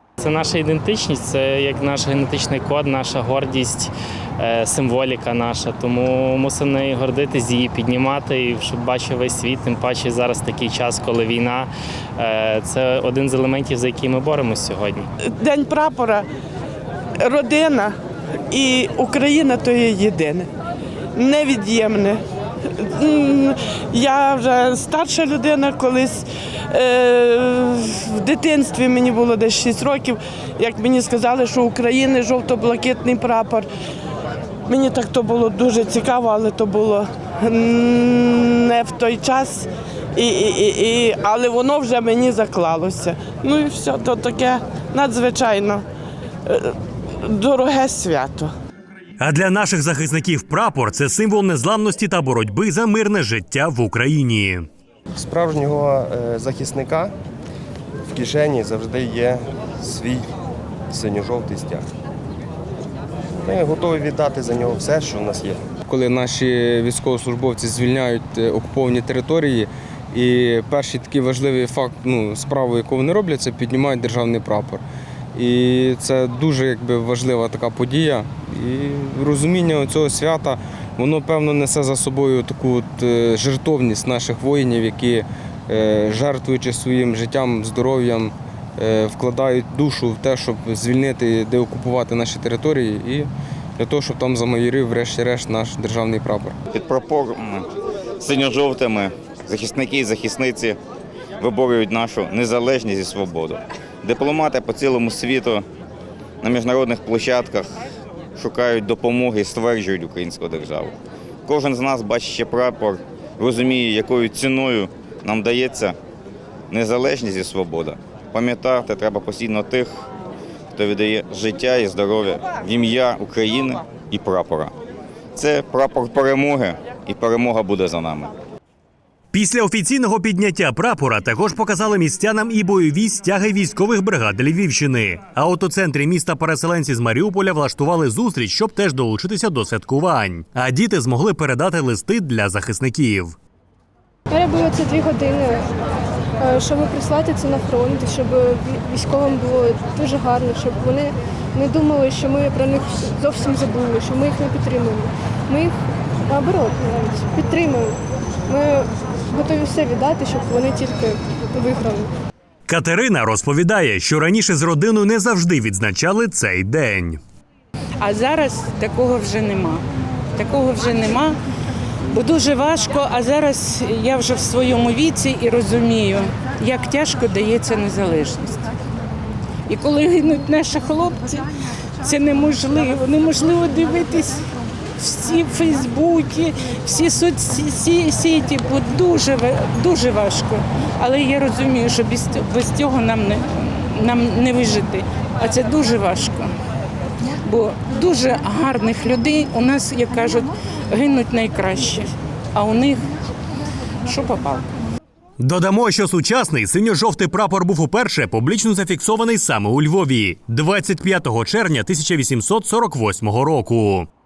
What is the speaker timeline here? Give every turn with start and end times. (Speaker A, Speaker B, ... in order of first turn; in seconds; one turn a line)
Speaker A: 0.2-15.1
Speaker B: 15.2-16.3
Speaker B: 17.2-17.9
Speaker B: 18.5-20.5
Speaker B: 21.1-22.2
Speaker B: 22.8-33.7
Speaker B: 34.7-45.8
Speaker B: 46.5-48.5
Speaker C: 49.2-54.7
Speaker D: 55.1-57.1
Speaker D: 58.1-60.3
Speaker D: 60.9-61.9
Speaker D: 63.4-65.6
Speaker E: 65.9-74.8
Speaker E: 75.3-96.6
Speaker F: 96.7-97.7
Speaker F: 98.2-100.8
Speaker F: 101.4-105.6
Speaker F: 106.4-107.8
Speaker F: 108.3-110.9
Speaker F: 111.5-116.0
Speaker F: 116.7-120.0
Speaker F: 120.7-124.7
Speaker F: 125.3-128.3
Speaker C: 129.3-143.3
Speaker G: 144.3-145.7
Speaker G: 146.4-155.8
Speaker G: 156.3-162.1
Speaker C: 162.7-167.2
Speaker H: 168.0-169.8
Speaker H: 170.3-171.4
Speaker H: 172.1-178.7
Speaker H: 179.7-181.5
Speaker H: 182.0-184.4
Speaker H: 185.0-196.5
Speaker H: 197.4-203.0
Speaker H: 204.0-204.6
Speaker C: 205.4-214.1